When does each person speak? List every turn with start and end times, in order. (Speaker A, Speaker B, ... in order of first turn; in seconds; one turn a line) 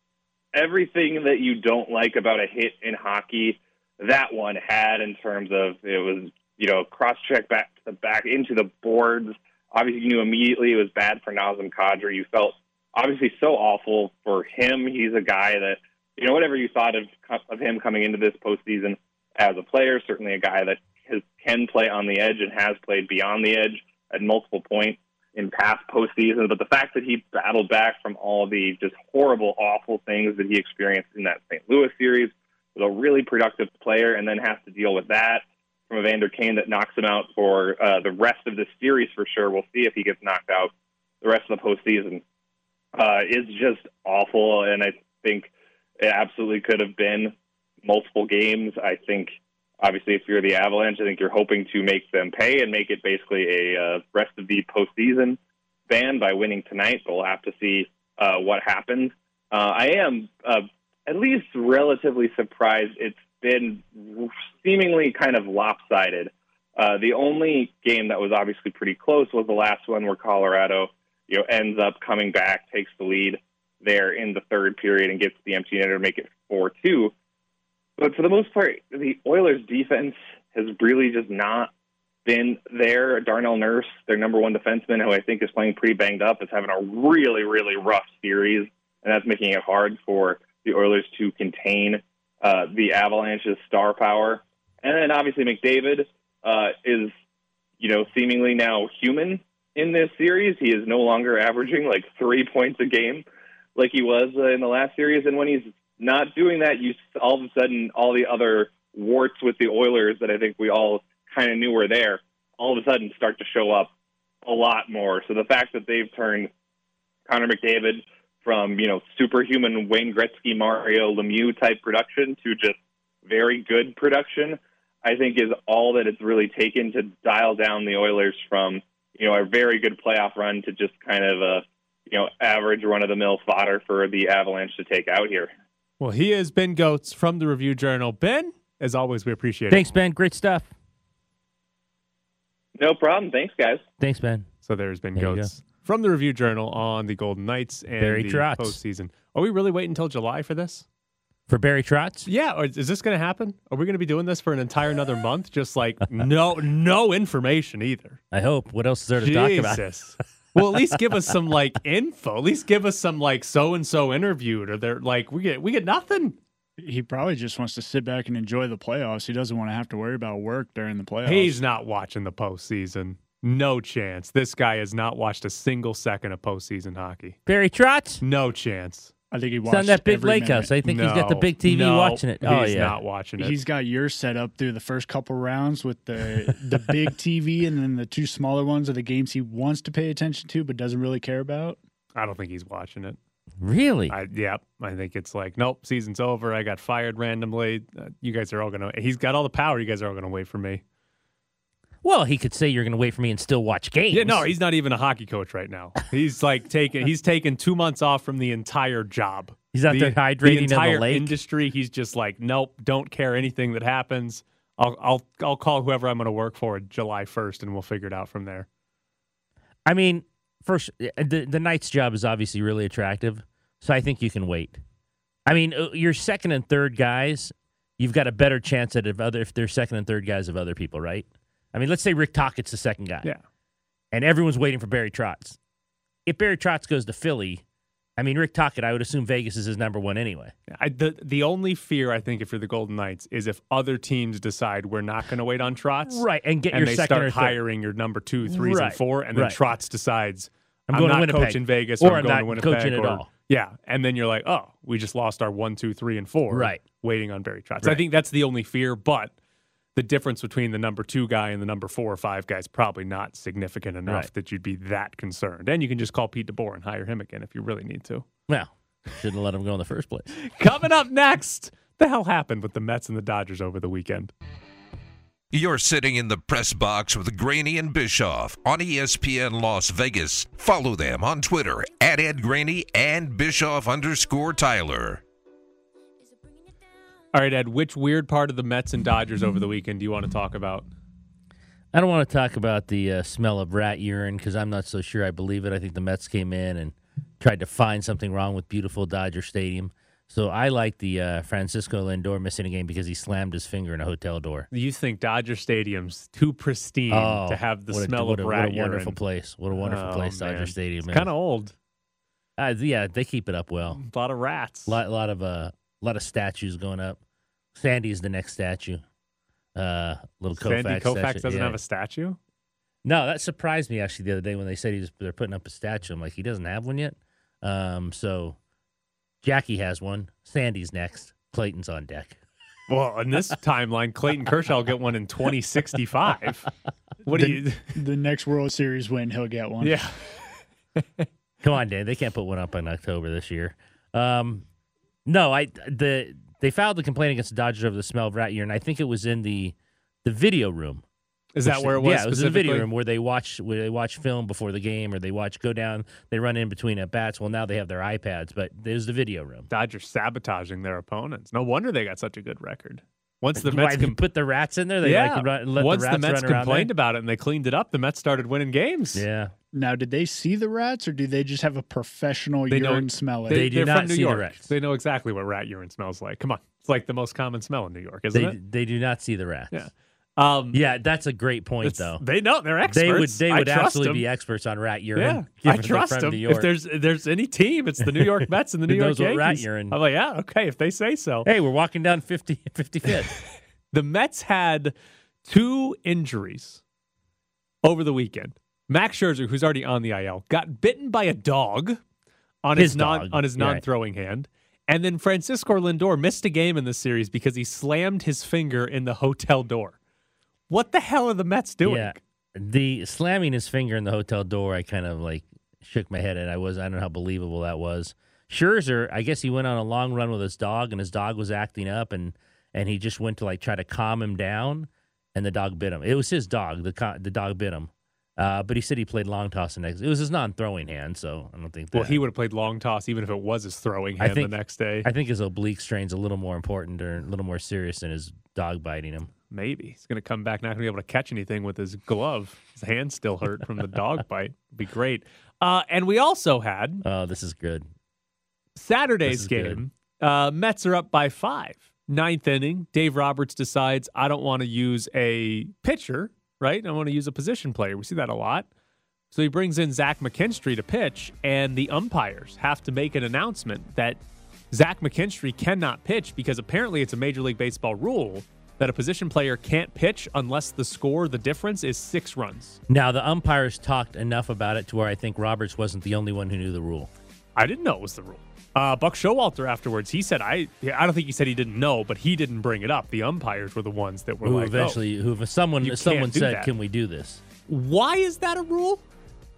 Speaker A: 0.6-42.2
Speaker A: 43.0-55.4
Speaker A: 55.9-77.1
Speaker A: 78.0-81.7
Speaker A: 82.2-97.1
Speaker A: 97.8-103.2
Speaker A: 103.8-113.9
Speaker A: 114.5-116.5
Speaker A: 117.3-135.5
Speaker B: 136.0-139.9
Speaker C: 139.7-140.7
Speaker A: 142.8-143.8
Speaker C: 144.0-144.5
Speaker B: 144.6-150.8
Speaker C: 145.2-145.5
Speaker C: 148.0-148.8
Speaker C: 151.5-152.3
Speaker B: 152.3-158.2
Speaker C: 158.3-159.8
Speaker B: 159.2-166.4
Speaker D: 166.8-171.6
Speaker B: 171.2-177.4
Speaker C: 177.5-178.2
Speaker B: 178.2-179.1
Speaker D: 179.3-180.7
Speaker C: 179.7-183.0
Speaker B: 180.8-183.6
Speaker D: 183.4-191.8
Speaker B: 192.2-193.2
Speaker C: 193.6-194.1
Speaker B: 194.1-200.8
Speaker C: 202.0-204.5
Speaker B: 204.1-218.7
Speaker C: 209.7-211.4
Speaker C: 219.9-224.8
Speaker C: 225.5-233.3
Speaker C: 234.1-235.6
Speaker C: 236.3-237.6
Speaker C: 238.2-240.5
Speaker B: 240.7-259.3
Speaker C: 246.1-247.6
Speaker C: 248.5-249.6
Speaker C: 250.9-253.3
Speaker C: 256.5-256.8
Speaker B: 259.9-268.3
Speaker C: 268.5-270.3
Speaker B: 270.4-274.3
Speaker E: 275.5-285.2
Speaker B: 287.3-290.9
Speaker C: 291.9-304.7
Speaker B: 304.7-309.2
Speaker C: 307.1-311.3
Speaker B: 309.8-311.8
Speaker C: 312.6-314.0
Speaker B: 313.9-315.0
Speaker C: 314.9-317.2
Speaker C: 317.8-319.0
Speaker C: 319.8-321.8
Speaker B: 320.6-322.4
Speaker C: 323.0-328.6
Speaker C: 329.4-332.4
Speaker B: 332.9-336.7
Speaker B: 337.2-338.0
Speaker D: 337.3-340.0
Speaker B: 339.8-341.3
Speaker C: 341.6-344.6
Speaker C: 345.3-351.0
Speaker B: 351.6-352.9
Speaker C: 351.7-359.7
Speaker B: 359.7-364.2
Speaker C: 363.6-366.9
Speaker B: 365.0-369.2
Speaker C: 369.1-369.5
Speaker D: 369.7-373.8
Speaker B: 372.7-378.6
Speaker C: 373.5-374.7
Speaker C: 378.3-379.8
Speaker B: 379.7-380.8
Speaker C: 380.7-382.2
Speaker B: 381.8-384.2
Speaker C: 382.9-386.7
Speaker B: 385.2-391.5
Speaker C: 388.9-390.0
Speaker C: 391.4-393.4
Speaker B: 393.1-396.8
Speaker B: 397.8-402.0
Speaker B: 402.6-410.0
Speaker C: 402.8-403.8
Speaker B: 410.7-412.2
Speaker C: 411.8-432.2
Speaker B: 431.9-435.1
Speaker C: 434.2-439.3
Speaker B: 439.5-447.0
Speaker C: 447.0-447.9
Speaker B: 448.8-458.7
Speaker C: 449.3-449.8
Speaker B: 459.3-464.2
Speaker B: 464.7-472.8
Speaker C: 472.9-477.1
Speaker B: 477.6-485.0
Speaker C: 484.4-487.4
Speaker B: 485.8-486.7
Speaker B: 487.7-489.0